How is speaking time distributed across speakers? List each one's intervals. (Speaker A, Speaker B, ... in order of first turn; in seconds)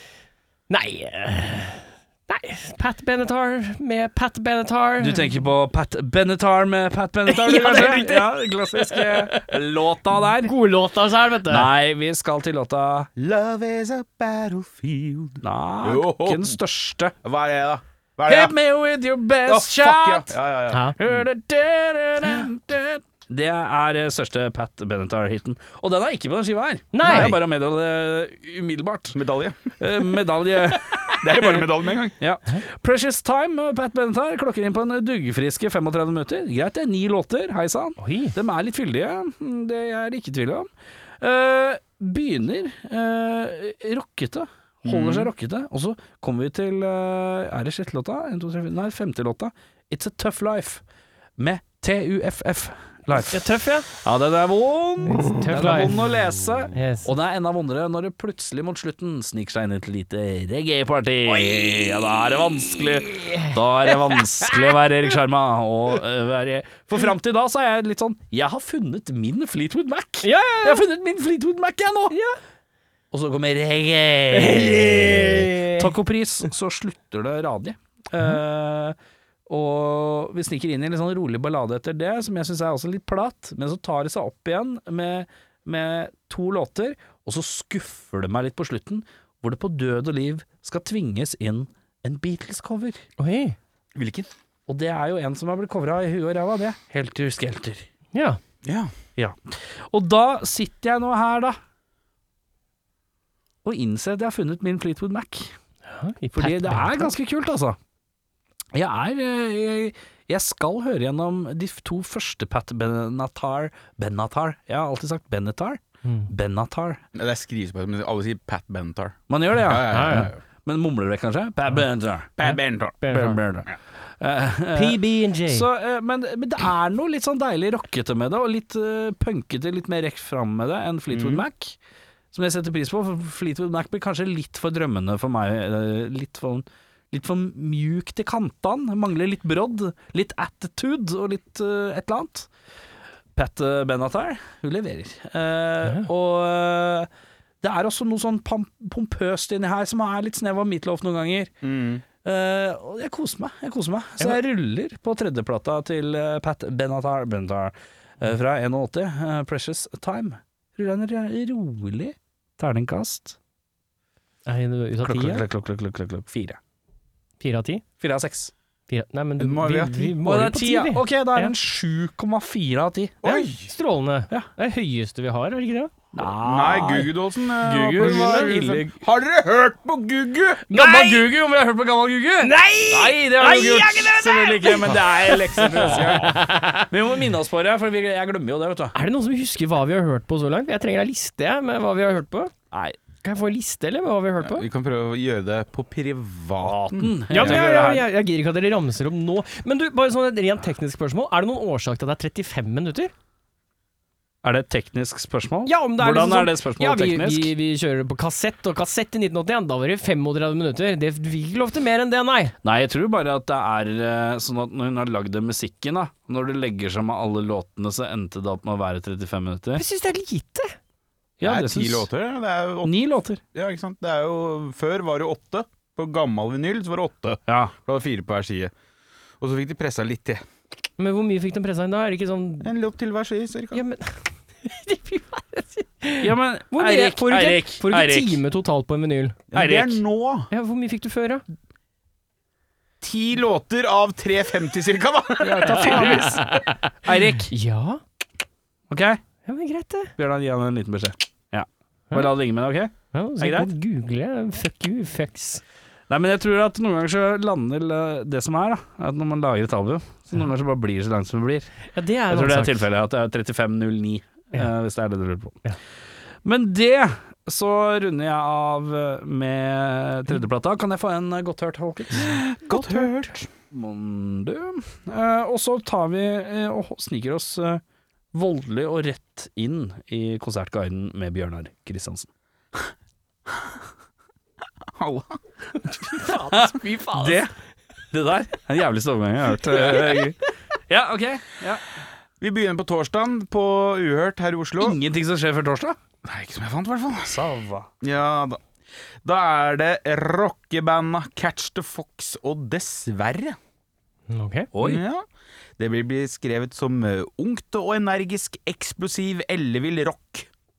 Speaker A: 0.7-5.4, 7.3-9.6, 10.2-11.7, 26.9-27.4, 38.0-38.3, 53.1-53.9, 55.0-56.1, 56.7-57.1, 63.0-64.8, 70.2-70.8, 72.1-72.4, 74.3-75.9, 93.2-93.6, 98.1-98.4, 105.8-107.1, 116.0-116.3, 119.9-120.3, 122.4-123.4, 124.7-125.7, 164.4-165.4, 167.4-167.8, 168.9-171.5, 173.2-175.9, 178.0-178.5, 180.7-181.3, 182.4-186.9, 188.9-192.5, 193.2-194.7, 197.3-203.1, 205.7-212.5, 219.8-220.8, 231.0-232.7, 233.7-239.4, 240.5-241.4, 245.8-246.9, 247.5-248.0, 249.4-250.1, 253.1-255.6, 261.9-262.8, 272.1-273.3, 286.2-287.3, 304.3-304.7
Speaker B: 5.0-10.5, 11.5-13.1, 15.4-17.1, 18.2-20.3, 20.9-29.2, 29.8-40.7, 41.2-50.8, 51.4-72.1, 73.1-79.0, 79.5-93.0, 94.7-97.8, 99.2-101.6, 103.6-105.5, 106.3-107.8, 108.7-117.0, 119.3-122.3, 123.1-131.8, 132.3-142.5, 143.3-147.1, 147.6-151.5, 152.2-163.4, 165.0-166.6, 168.0-168.5, 170.2-173.2, 176.1-178.9, 180.7-186.3, 186.9-189.0, 192.7-193.0, 196.6-198.1, 204.4-207.5, 212.6-219.8, 221.4-222.1, 222.8-223.4, 227.5-227.7, 236.2-238.4, 239.5-240.0, 245.4-246.4, 247.0-247.5, 248.9-249.2, 250.2-253.7, 256.1-261.7, 262.3-265.6, 266.4-272.4, 273.7-277.8, 278.3-282.3, 286.5-287.5, 288.1-291.8, 294.8-296.0, 297.2-297.9, 304.7-305.0
Speaker C: 13.2-16.6, 17.2-18.6, 19.4-21.2, 27.1-27.3, 29.1-29.7, 31.2-32.1, 44.8-45.3, 93.9-94.3, 98.6-98.9, 117.1-120.3, 122.4-123.0, 131.1-131.4, 151.6-152.0, 169.4-170.2, 173.2-173.7, 176.4-180.6, 184.8-186.3, 194.4-197.6, 221.4-222.9, 223.5-228.7, 229.4-230.4, 232.6-233.8, 239.5-240.5, 243.0-246.3, 272.1-273.5, 284.9-287.4, 292.4-295.0, 296.2-297.4, 298.0-298.6, 299.2-303.6, 304.8-305.2, 305.8-310.5